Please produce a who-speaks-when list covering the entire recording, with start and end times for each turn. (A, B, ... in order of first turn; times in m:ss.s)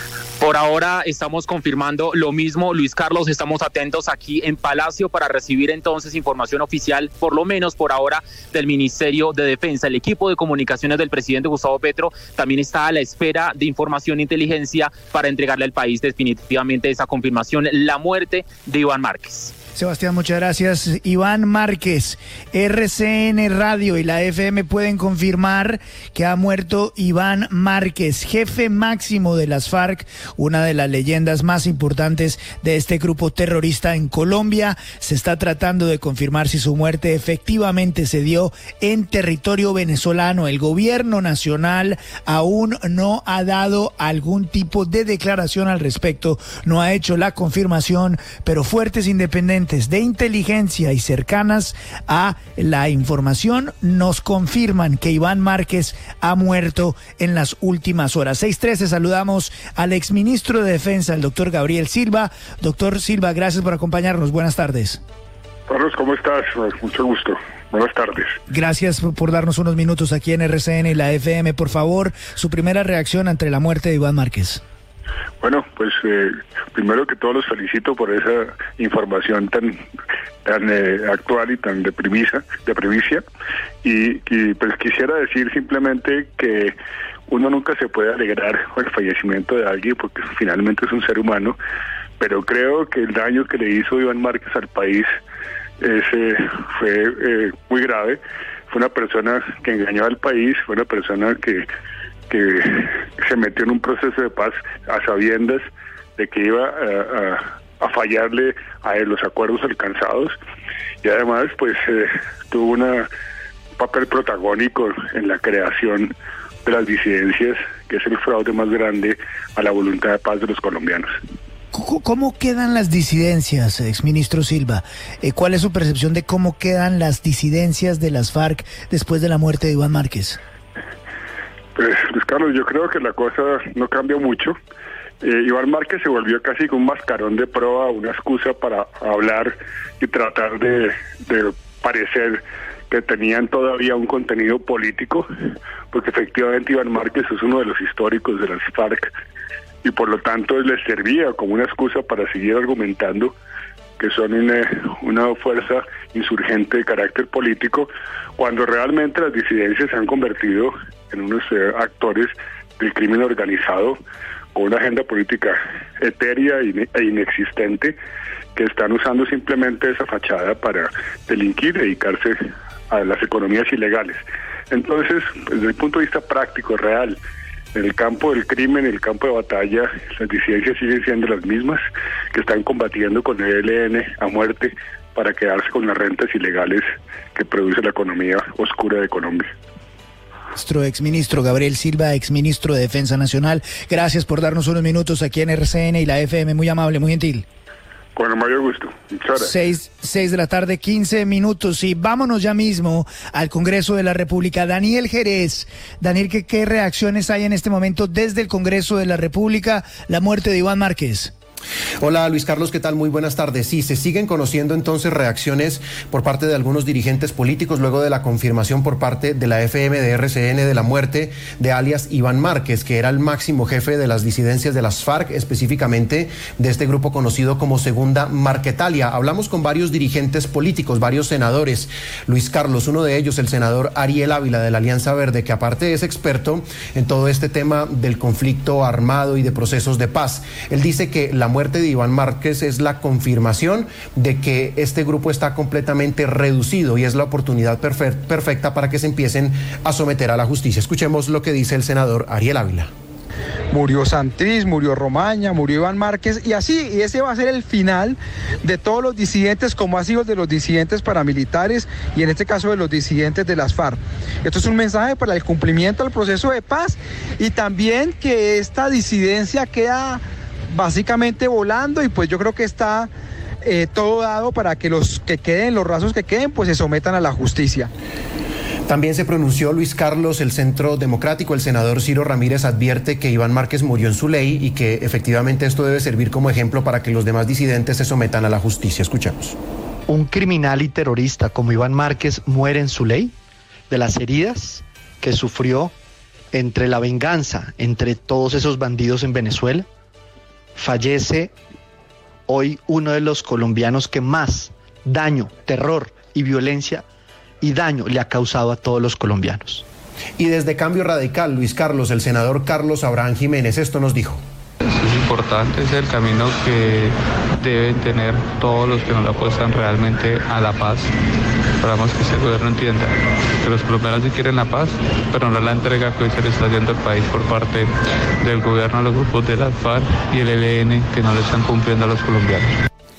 0:00.4-0:19.5 A
0:19.7-1:05.0 B
1:05.7-1:08.4 C
1:08.5-1:14.6 B
1:15.4-1:19.8 C
1:20.4-1:23.2 C
1:23.8-1:26.7 C
1:27.3-1:31.6 C
1:32.2-1:35.1 C
1:35.8-1:41.7 C
1:42.3-1:45.7 C
1:46.2-1:50.4 C
1:51.0-1:53.1 C
1:53.8-1:56.1 C
1:56.6-2:01.1 C
2:01.7-2:10.4 B
2:11.8-2:14.6 C
2:15.2-2:25.2 C
2:25.9-2:29.1 C
2:29.8-2:33.3 C
2:34.0-2:44.0 C
2:44.5-2:48.0 C
2:48.6-2:57.2 C
2:57.7-3:09.5 C
3:10.5-3:17.4 B
3:18.2-3:19.5 C
3:19.4-3:31.3 B
3:32.0-4:12.9 D
4:13.7-4:33.1 E
4:33.6-4:37.9 E
4:38.9-4:49.6 D
4:50.1-4:53.3 F
4:53.9-4:55.9 F
4:56.5-4:59.9 F
5:00.8-5:01.5 F
5:02.5-5:07.0 F
5:07.6-5:09.8 F
5:10.4-5:14.4 D
5:14.8-5:21.1 G
5:21.8-5:32.7 G